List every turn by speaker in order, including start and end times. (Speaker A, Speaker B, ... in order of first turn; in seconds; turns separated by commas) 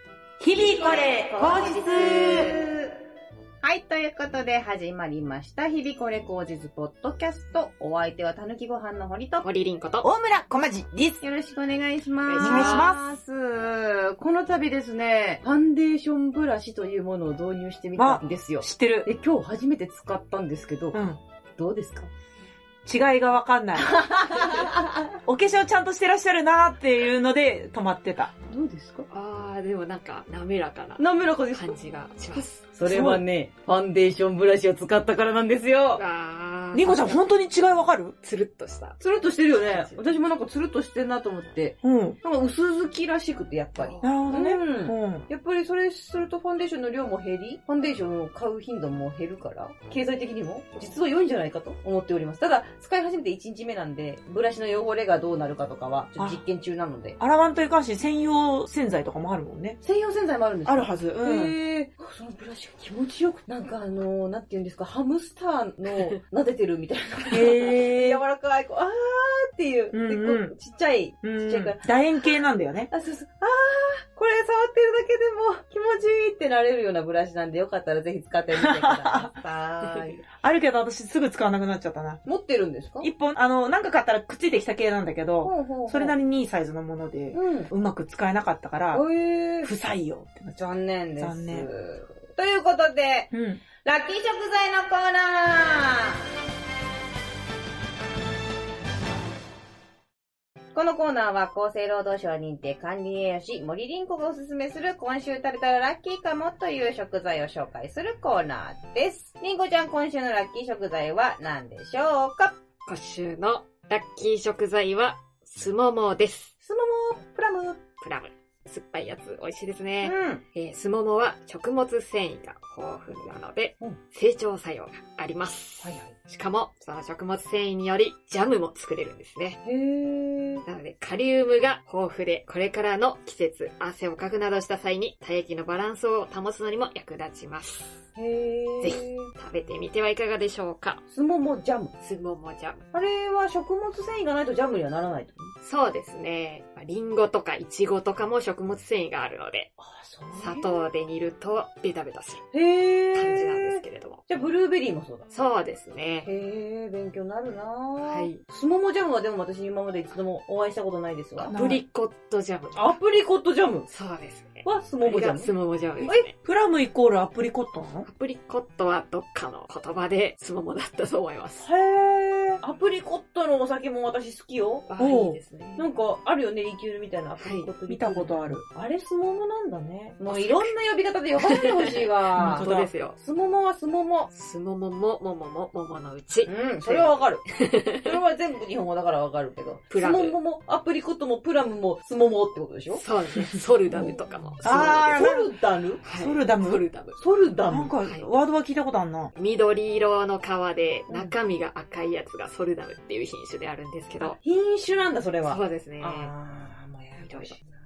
Speaker A: 0.4-2.6, Speaker B: 0.6-2.9, Speaker B: 3.6-9.4, Speaker C: 9.4-10.1, Speaker A: 10.0-11.2, Speaker B: 11.2-21.0, Speaker C: 12.2-12.9, Speaker A: 12.4-13.2, Speaker A: 18.0-19.1, Speaker A: 20.9-21.2, Speaker B: 21.6-22.1, Speaker A: 22.8-24.7, Speaker B: 23.8-25.1, Speaker A: 25.2-28.3, Speaker B: 28.5-29.1, Speaker C: 29.1-32.7, Speaker B: 31.0-31.8, Speaker B: 32.3-36.0, Speaker A: 32.8-33.2, Speaker C: 35.9-37.2, Speaker A: 36.7-38.1, Speaker C: 38.2-40.1, Speaker B: 39.0-57.2, Speaker A: 41.8-42.2, Speaker C: 43.8-44.1, Speaker A: 44.0-45.2, Speaker A: 56.2-56.4, Speaker A: 57.2-59.8, Speaker B: 59.8-72.3, Speaker A: 60.6-61.5, Speaker A: 67.3-68.2, Speaker A: 69.9-70.5, Speaker A: 71.2-72.9, Speaker B: 72.9-80.2, Speaker A: 78.6-79.3, Speaker A: 80.4-82.2, Speaker B: 82.2-83.1, Speaker A: 83.0-89.0, Speaker B: 85.4-86.1, Speaker B: 87.3-87.7, Speaker B: 88.9-89.7, Speaker A: 89.6-90.6, Speaker B: 90.5-96.2, Speaker A: 91.2-91.7, Speaker A: 93.3-93.6, Speaker B: 100.7-112.5, Speaker C: 112.8-116.5, Speaker B: 116.6-117.8, Speaker C: 118.0-129.6, Speaker B: 120.0-120.4, Speaker B: 125.8-126.1, Speaker B: 129.6-130.6, Speaker C: 130.7-138.1, Speaker B: 138.2-139.3, Speaker C: 138.8-141.0, Speaker B: 141.1-141.9, Speaker C: 142.0-142.8, Speaker B: 142.9-145.5, Speaker C: 145.6-149.7, Speaker B: 149.8-150.8, Speaker C: 150.3-152.5, Speaker B: 152.5-155.2, Speaker C: 153.1-154.2, Speaker C: 155.3-156.3, Speaker B: 156.2-161.5, Speaker C: 158.0-158.4, Speaker C: 161.4-162.9, Speaker A: 161.4-161.8, Speaker B: 162.7-163.9, Speaker C: 163.9-166.3, Speaker B: 164.6-166.3, Speaker A: 166.4-168.1, Speaker C: 168.1-171.7, Speaker B: 171.6-174.8, Speaker C: 174.9-175.9, Speaker A: 175.0-175.4, Speaker B: 175.8-184.3, Speaker C: 177.4-177.7, Speaker A: 177.9-178.6, Speaker C: 180.3-180.7, Speaker C: 181.4-183.2, Speaker A: 182.3-182.9, Speaker C: 184.3-188.1, Speaker B: 186.4-187.4, Speaker B: 188.0-193.0, Speaker C: 189.9-190.4, Speaker C: 192.9-195.2, Speaker B: 193.9-196.0, Speaker A: 194.6-195.5, Speaker C: 196.0-197.2, Speaker A: 196.1-196.8, Speaker B: 197.1-197.9, Speaker A: 197.7-199.3, Speaker C: 199.3-204.4, Speaker B: 201.1-201.3, Speaker B: 204.2-207.6, Speaker C: 205.4-206.3, Speaker C: 207.2-207.5